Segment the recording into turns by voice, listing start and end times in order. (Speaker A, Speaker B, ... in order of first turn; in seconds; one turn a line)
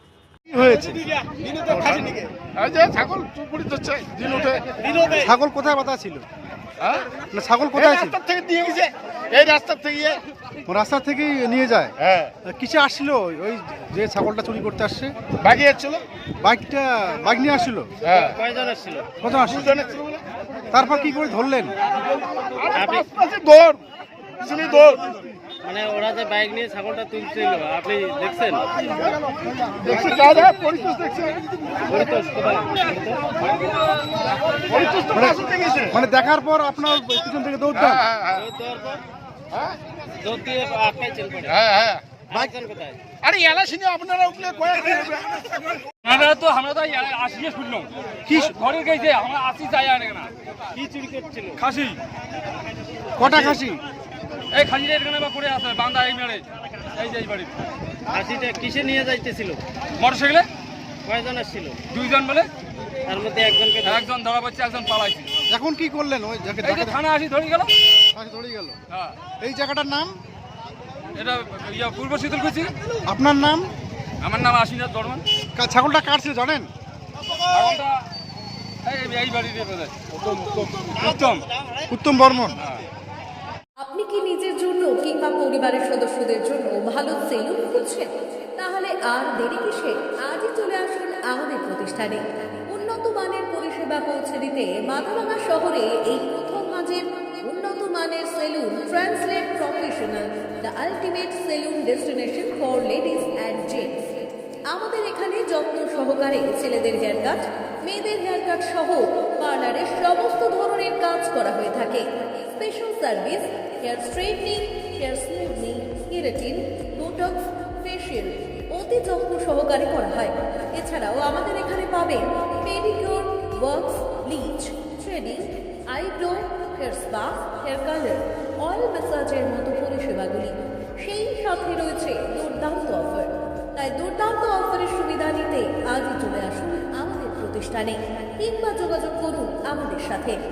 Speaker A: 0.5-1.0
Speaker B: 1.7-2.2
Speaker C: 2.5-4.6
Speaker B: 4.9-5.2
Speaker A: 5.2-6.2
Speaker A: 7.3-8.2
Speaker C: 7.9-10.2
Speaker A: 10.7-15.1
Speaker C: 15.4-16.0
Speaker A: 16.4-17.9
Speaker B: 18.1-19.1
Speaker A: 19.2-19.8
Speaker A: 20.7-21.7
Speaker B: 22.7-23.1
Speaker C: 23.1-23.8
Speaker C: 24.4-25.1
Speaker B: 25.6-28.7
Speaker C: 29.7-31.4
Speaker B: 31.9-33.5
Speaker C: 34.8-35.9
Speaker A: 35.1-38.1
Speaker B: 38.3-39.0
Speaker B: 40.2-43.1
Speaker C: 43.2-45.5
Speaker D: 46.0-50.3
Speaker A: 48.3-48.5
Speaker B: 50.8-51.6
Speaker D: 51.6-52.0
Speaker A: 53.2-53.8
Speaker B: 53.2-53.6
Speaker D: 54.5-56.4
Speaker D: 57.0-57.5
Speaker B: 58.1-59.6
Speaker D: 60.0-60.5
Speaker B: 61.0-61.8
Speaker D: 61.9-62.5
Speaker B: 63.0-64.0
Speaker D: 63.8-65.3
Speaker A: 65.5-67.0
Speaker D: 66.6-67.7
Speaker A: 68.1-68.8
Speaker A: 69.4-70.1
Speaker D: 71.2-72.7
Speaker A: 73.1-73.7
Speaker D: 74.2-75.2
Speaker A: 75.6-76.7
Speaker D: 77.5-77.9
Speaker D: 78.8-81.5
Speaker A: 81.9-82.6
Speaker E: 83.8-104.1
Speaker E: 104.7-140.4